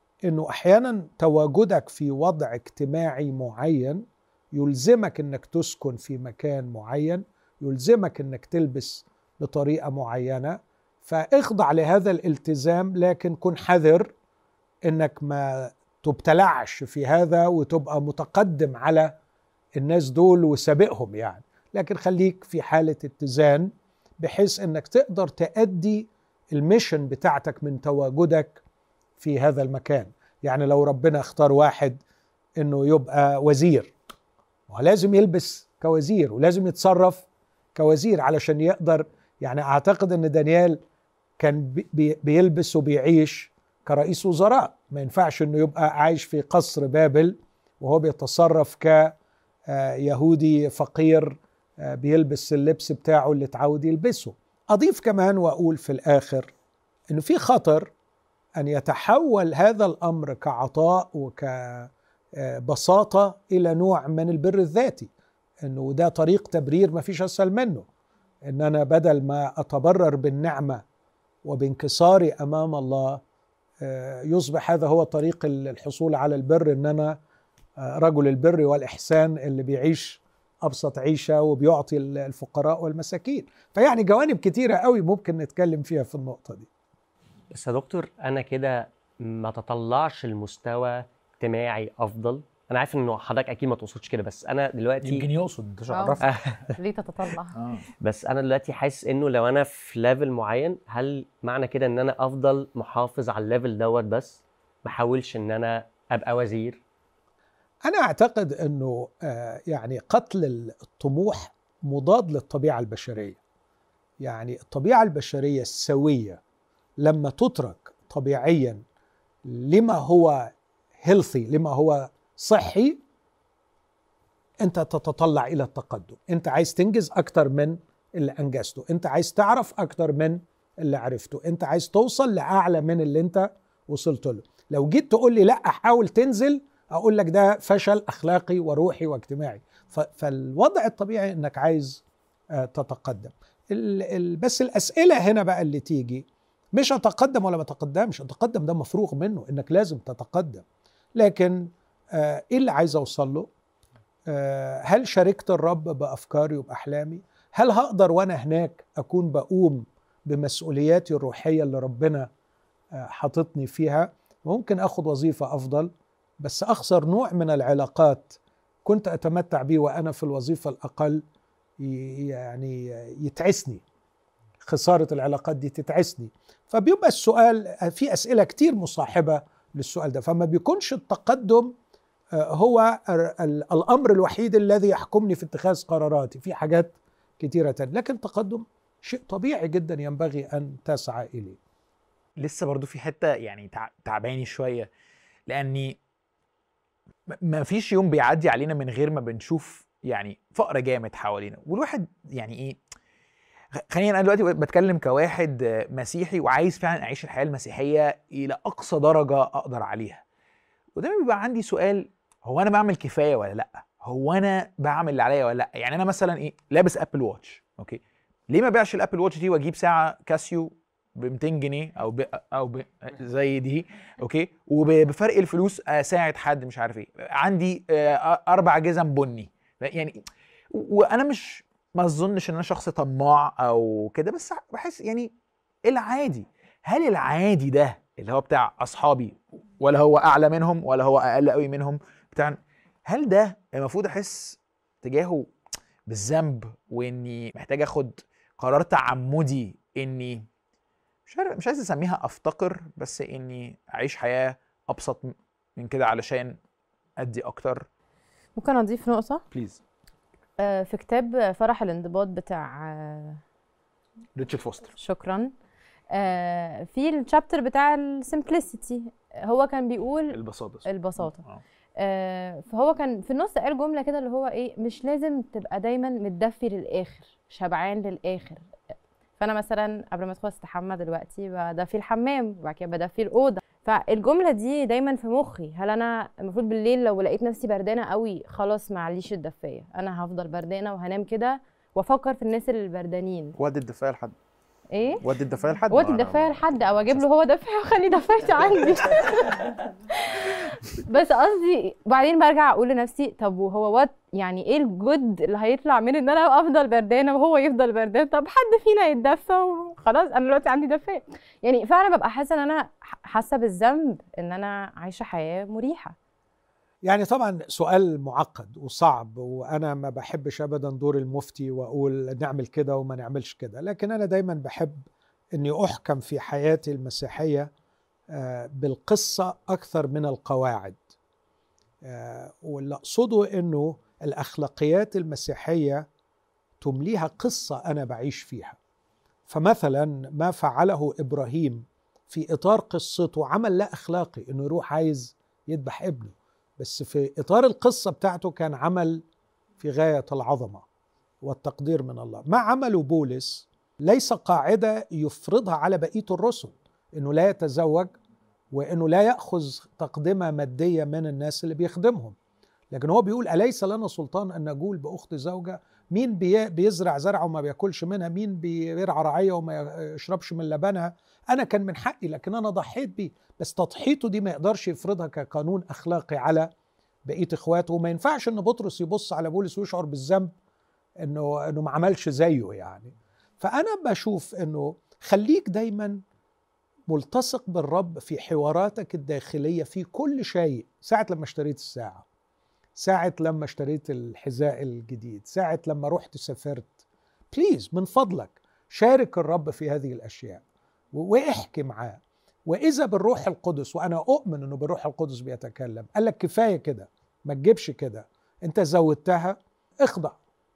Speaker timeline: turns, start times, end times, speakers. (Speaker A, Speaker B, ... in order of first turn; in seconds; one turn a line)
Speaker A: 0.2-14.1
Speaker A: 14.8-19.1
Speaker A: 19.8-28.6
Speaker A: 29.2-32.0
Speaker A: 32.6-33.9
Speaker A: 34.7-40.8
Speaker A: 41.4-49.1
Speaker A: 49.7-56.5
Speaker A: 57.1-57.9
Speaker A: 58.6-65.1
Speaker A: 65.6-67.9
Speaker A: 68.5-70.8
Speaker A: 71.4-73.2
Speaker A: 73.8-77.2
Speaker A: 77.8-86.7
Speaker B: 87.5-95.3
Speaker C: 95.0-96.3
Speaker D: 95.9-96.2
Speaker B: 96.2-96.6
Speaker D: 96.8-97.6
Speaker C: 97.5-97.8
Speaker B: 98.0-106.8
Speaker A: 107.8-113.4
Speaker A: 114.2-116.4
Speaker A: 117.0-118.8
Speaker A: 119.5-123.0
Speaker A: 124.6-142.0
Speaker A: 142.5-150.6
Speaker A: 151.2-153.5
Speaker A: 154.3-162.3
Speaker A: 162.9-171.2
Speaker A: 171.8-173.8
Speaker A: 174.6-181.7
Speaker A: 182.3-191.6
Speaker C: 192.4-194.9
Speaker C: 195.5-196.0
Speaker C: 197.4-202.8
Speaker C: 203.9-210.2
Speaker C: 210.9-230.2
Speaker C: 230.7-235.3
Speaker C: 235.8-245.5
Speaker C: 246.1-250.4
Speaker C: 251.3-256.6
Speaker C: 257.2-257.9
Speaker D: 258.6-259.4
Speaker C: 259.5-259.8
Speaker D: 260.6-263.4
Speaker C: 264.4-264.9
Speaker D: 265.0-265.5
Speaker D: 266.1-271.4
Speaker C: 270.3-271.6
Speaker D: 272.0-278.6
Speaker D: 279.4-293.6
Speaker E: 293.6-294.3
Speaker D: 294.9-295.2
Speaker E: 295.2-297.2
Speaker D: 295.9-316.1
Speaker A: 317.0-327.7
Speaker A: 328.3-331.0
Speaker A: 332.0-336.1
Speaker A: 336.8-338.8
Speaker A: 339.5-349.2
Speaker A: 349.8-350.9
Speaker A: 351.4-358.2
Speaker A: 358.7-362.4
Speaker A: 362.9-376.7
Speaker A: 377.2-380.5
Speaker A: 381.2-386.2
Speaker A: 387.1-392.2
Speaker A: 393.0-397.0
Speaker A: 397.5-410.4